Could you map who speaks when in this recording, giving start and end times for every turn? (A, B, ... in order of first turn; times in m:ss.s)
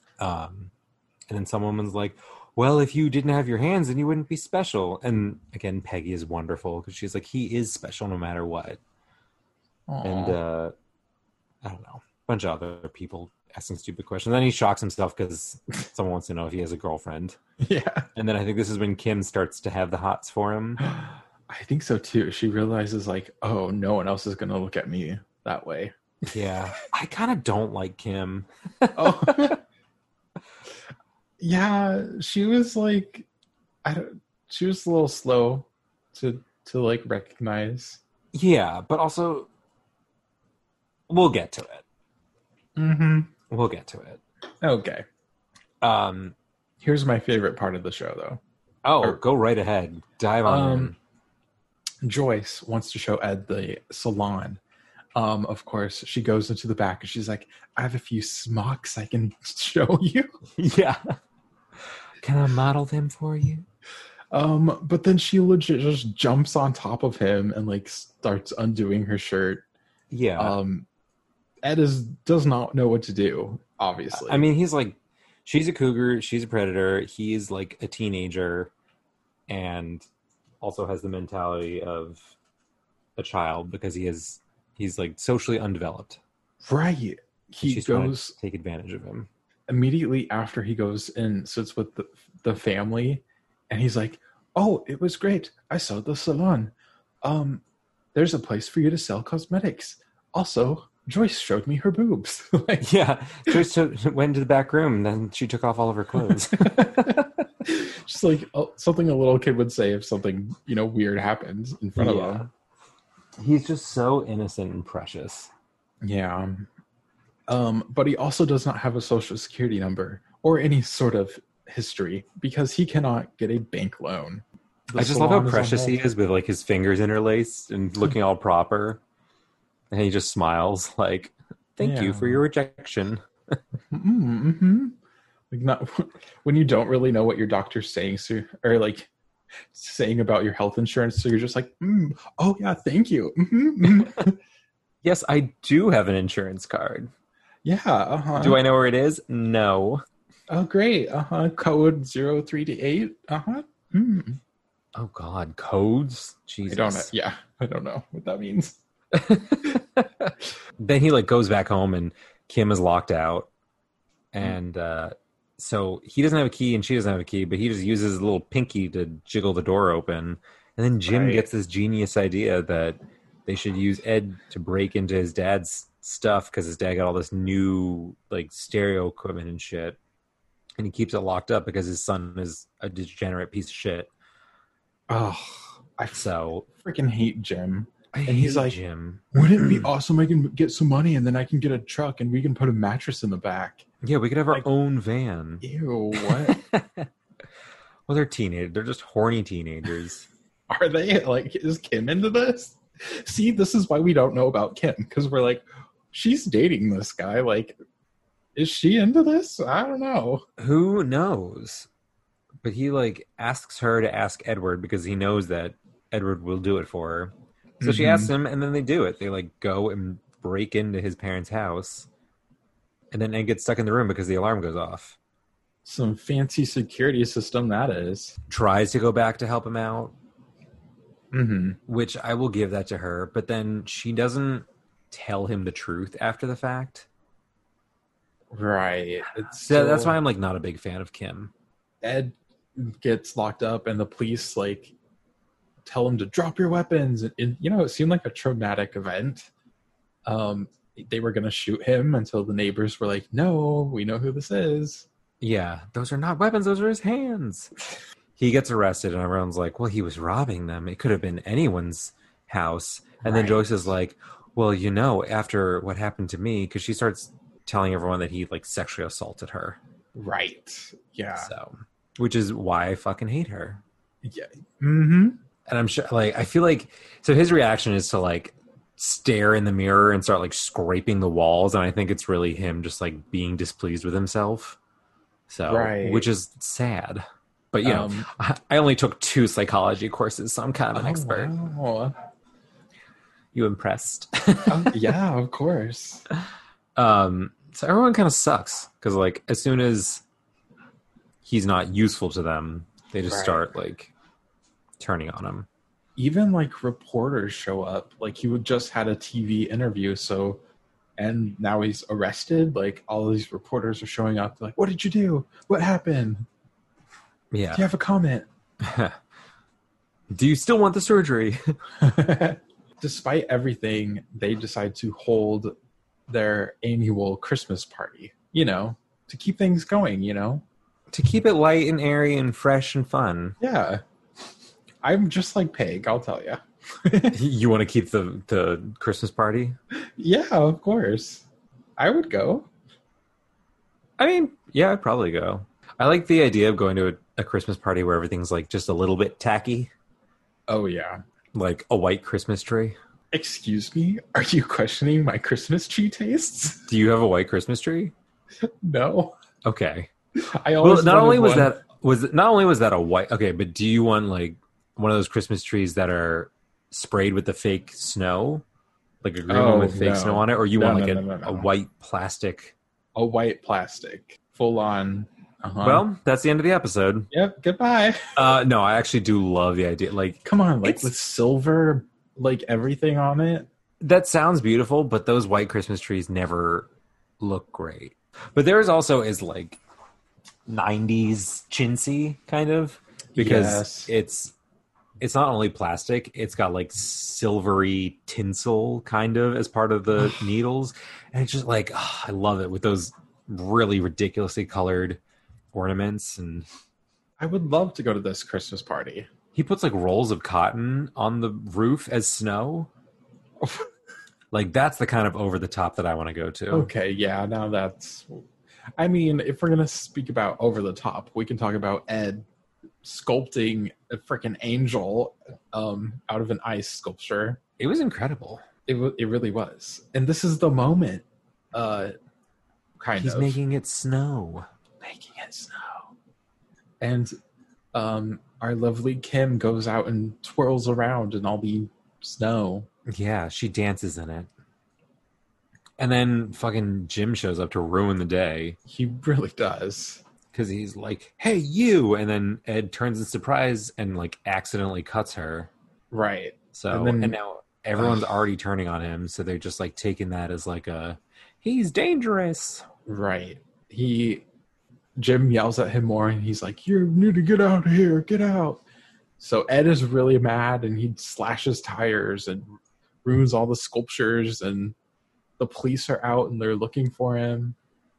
0:00.2-0:00.7 A
0:01.3-0:08.8 A
0:09.9-0:10.4 B
0:10.0-0:10.7 A
0:11.6-0:17.4 A
0:17.6-0:18.1 B
0:18.1-0:20.8 A
0:20.8-0:25.9 B
0:26.3-0:29.6 A
0:29.0-0:29.6 B
0:31.4-0:33.3 B
0:33.8-0:38.0 B
0:38.3-0:39.5 A
0:41.1-0:41.8 A
0:42.8-0:43.3 B
0:43.5-0:44.2 A
0:44.6-0:45.0 B
0:45.8-0:46.3 A
0:46.8-0:48.4 B
0:48.8-0:51.0 A
0:50.4-0:50.9 B
0:52.0-0:54.6 B
0:55.1-1:00.3 B
1:00.6-1:01.0 A
1:02.2-1:03.6 A
1:04.3-1:09.6 B
1:10.1-1:10.6 A
1:10.4-1:10.9 B
1:11.6-1:14.5 B
1:14.1-1:18.7 A
1:19.5-1:20.0 A
1:20.6-1:22.3 A
1:23.2-1:26.2 A
1:26.6-1:28.3 B
1:27.6-1:29.3 A
1:29.7-1:37.6 B
1:38.1-1:42.9 B
1:42.8-1:47.3 A
1:46.2-1:52.4 B
1:52.0-1:52.5 A
1:53.4-1:55.5 A
1:56.0-1:56.7 B
1:57.5-2:06.0 B
2:04.9-2:09.0 A
2:09.9-2:13.6 A
2:11.8-2:12.4 B
2:13.9-2:14.9 B
2:15.5-2:19.1 B
2:19.7-2:24.4 B
2:25.0-2:27.1 A
2:27.6-2:28.6 B
2:28.4-2:30.0 A
2:30.5-2:34.4 B
2:34.9-2:37.1 A
2:36.7-2:38.8 B
2:39.1-2:43.5 A
2:44.3-3:00.0 A
2:51.1-2:51.5 B
3:00.8-3:04.1 A
3:05.1-3:08.8 B
3:06.1-3:06.6 A
3:08.1-3:09.9 A
3:09.3-3:13.8 B
3:14.0-3:17.1 A
3:15.6-3:16.6 B
3:18.1-3:20.3 A
3:20.7-3:27.8 B
3:28.6-3:30.4 B
3:30.6-3:31.9 A
3:32.6-3:42.1 A
3:37.8-3:38.3 B
3:43.1-3:45.2 A
3:45.8-3:48.4 B
3:48.5-3:50.1 A
3:51.3-3:51.8 B
3:51.9-3:57.1 A
3:58.5-4:00.2 B
3:59.5-4:01.5 A
4:02.0-4:04.9 B
4:05.8-4:09.5 B
4:10.2-4:15.0 B
4:15.4-4:17.7 A
4:18.4-4:29.8 A
4:23.2-4:23.8 B
4:30.1-4:31.5 B
4:31.4-4:33.8 A
4:34.2-4:35.4 B
4:35.7-4:44.8 A
4:45.5-4:51.5 A
4:45.7-4:46.3 B
4:47.8-4:48.3 B
4:50.9-4:52.1 B
4:53.5-4:55.0 A
4:54.7-4:56.2 B
4:57.0-5:00.2 A
5:01.4-5:04.1 A
5:03.3-5:03.7 B
5:05.0-5:05.7 A
5:06.2-5:10.6 B
5:11.2-5:16.5 B
5:17.5-5:17.8 A
5:17.7-5:18.5 B
5:18.8-5:19.2 A
5:20.3-5:21.7 A
5:22.0-5:25.7 B
5:26.3-5:30.6 B
5:31.1-5:33.6 A
5:33.6-5:34.0 B
5:35.0-5:37.4 B
5:37.3-5:39.8 A
5:40.0-5:41.4 B
5:42.0-5:42.7 B
5:44.2-5:49.9 A
5:50.7-5:51.2 B
5:51.5-5:53.0 A
5:53.3-5:56.8 B
5:56.9-5:58.1 A
5:58.6-5:59.4 B
5:59.6-6:00.1 A
6:00.4-6:01.7 B
6:00.8-6:08.6 A
6:09.2-6:12.7 A
6:09.5-6:11.7 B
6:13.2-6:16.0 B
6:15.8-6:17.3 A
6:17.3-6:18.3 B
6:18.3-6:21.1 A
6:20.4-6:23.7 B
6:24.0-6:26.9 A
6:27.4-6:29.8 A
6:30.7-6:34.5 A
6:33.3-6:34.1 B
6:35.2-6:45.2 A
6:45.7-6:46.7 A
6:47.4-6:49.3 B
6:49.5-6:52.9 A
6:53.6-6:53.9 B
6:54.5-6:56.9 A
6:56.7-6:58.4 B
6:59.0-7:02.4 B
7:03.0-7:07.6 B
7:07.8-7:08.6 A
7:08.9-7:12.1 B
7:13.0-7:13.6 B
7:13.2-7:14.7 A
7:15.0-7:16.1 B
7:17.0-7:17.3 B
7:17.9-7:22.9 B
7:23.1-7:24.5 A
7:26.0-7:28.8 A
7:28.9-7:30.2 B
7:30.5-7:35.7 A
7:36.1-7:37.4 B
7:36.7-7:42.8 A
7:38.0-7:38.2 B
7:43.0-7:44.4 B
7:45.2-7:48.8 B
7:49.4-7:52.7 B
7:53.2-7:54.9 B
7:55.6-7:57.8 B